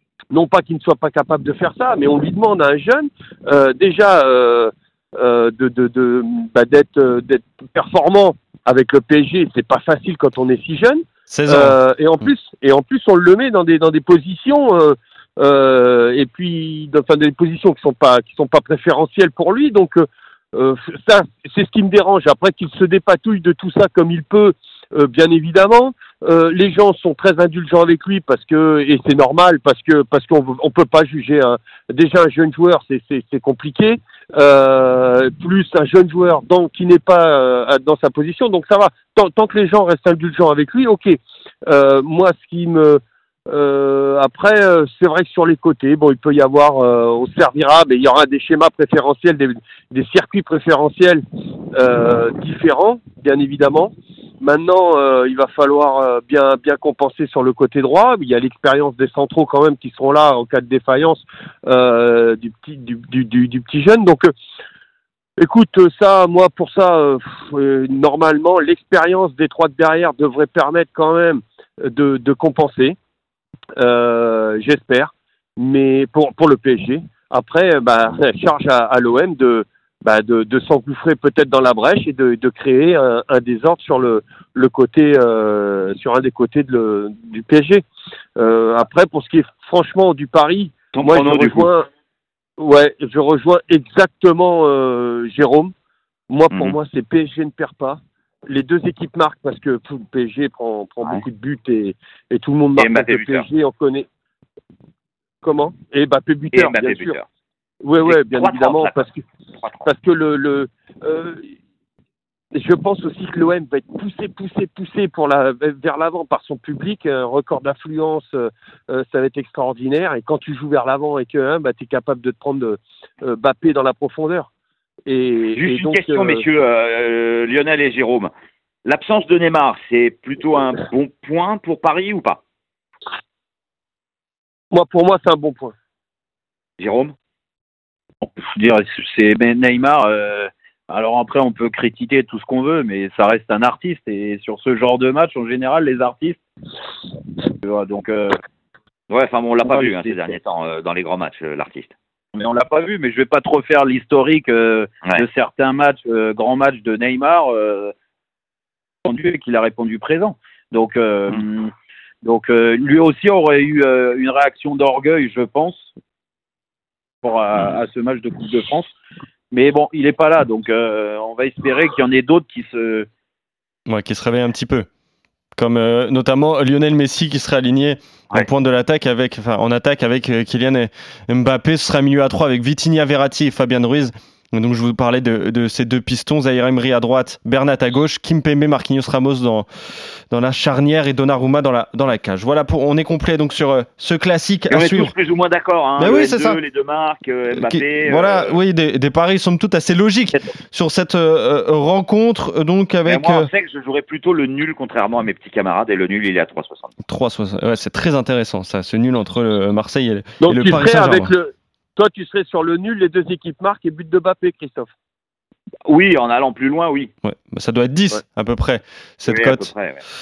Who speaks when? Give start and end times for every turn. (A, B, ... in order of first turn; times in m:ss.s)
0:00.3-0:51.2 A
0:11.3-0:11.8 B
0:51.7-1:04.3 A
1:05.4-1:13.0 A
1:13.8-1:27.8 A
1:28.4-1:31.9 A
1:30.9-1:31.7 C
1:32.6-1:35.7 A
1:36.3-1:44.0 A
1:42.8-1:43.4 C
1:45.4-1:47.2 A
1:46.5-1:47.2 C
1:47.8-1:49.2 A
1:48.0-1:49.0 C
1:49.6-1:49.9 C
1:49.8-1:51.5 A
1:52.5-2:04.5 A
2:05.0-2:06.4 A
2:05.6-2:08.3 C
2:08.8-2:12.4 C
2:14.7-2:15.7 A
2:16.8-2:17.1 C
2:18.2-2:26.4 D
2:27.6-2:28.3 D
2:29.1-2:31.9 C
2:29.6-2:30.4 D
2:32.3-2:37.9 D
2:39.0-2:41.7 D
2:42.2-2:45.9 D
2:47.2-2:48.9 D
2:49.5-2:53.1 D
2:53.9-2:54.9 B
2:55.6-3:09.7 B
3:10.3-3:15.1 B
3:14.7-3:18.6 C
3:16.0-3:16.6 B
3:17.5-3:23.5 B
3:23.0-3:26.9 C
3:27.0-3:31.3 B
3:30.4-3:34.9 A
3:35.8-3:37.1 C
3:37.2-3:39.7 B
3:39.3-3:40.0 C